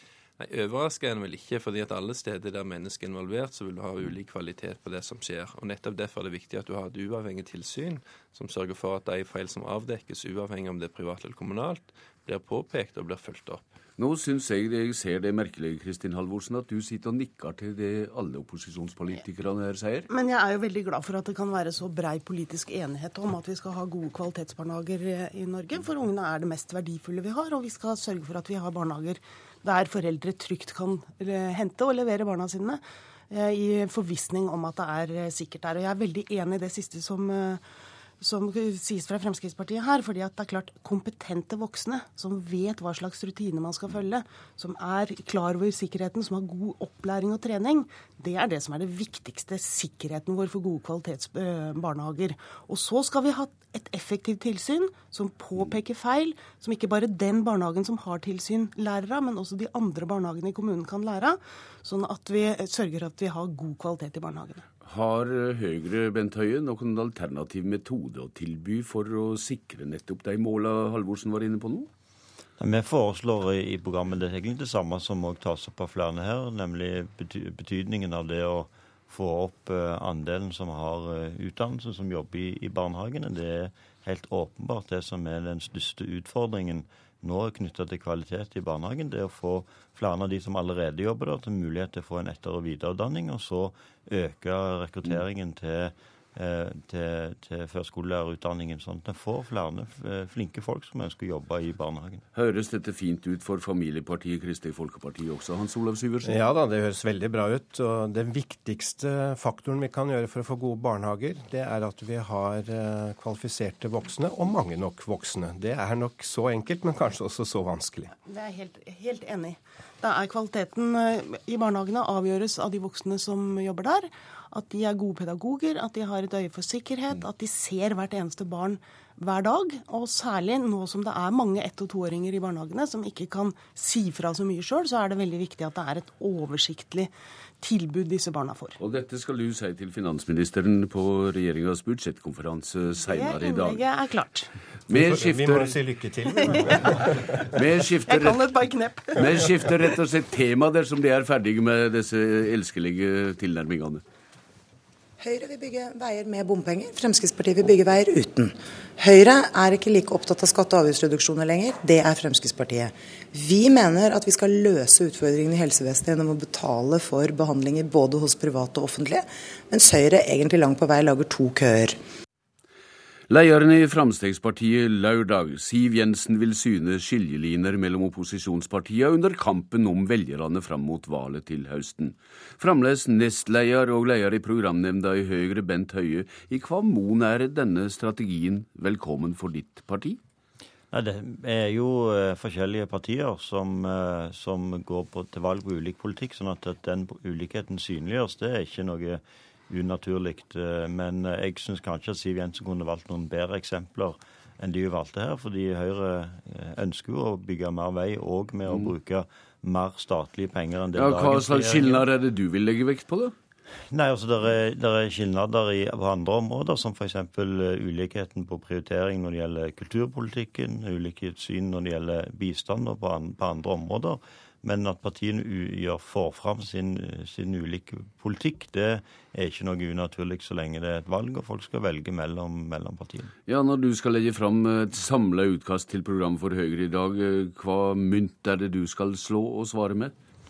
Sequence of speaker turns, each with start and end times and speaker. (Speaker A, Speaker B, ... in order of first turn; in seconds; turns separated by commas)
Speaker A: 0.4-13.6, Speaker B: 14.0-20.1, Speaker C: 20.1-37.6, Speaker C: 38.2-64.6, Speaker B: 64.8-71.9, Speaker D: 72.6-102.2, Speaker B: 102.3-106.4, Speaker E: 106.2-118.1, Speaker C: 118.3-138.8, Speaker B: 138.8-143.8, Speaker C: 143.0-144.5, Speaker B: 144.9-145.8, Speaker E: 144.9-147.3, Speaker C: 146.3-147.0, Speaker B: 147.5-148.5, Speaker C: 148.0-149.9, Speaker B: 149.2-154.0, Speaker F: 155.2-172.0, Speaker B: 173.3-190.2, Speaker D: 190.9-212.0, Speaker B: 208.7-208.9, Speaker B: 210.9-213.3, Speaker D: 213.9-233.3, Speaker B: 233.5-240.1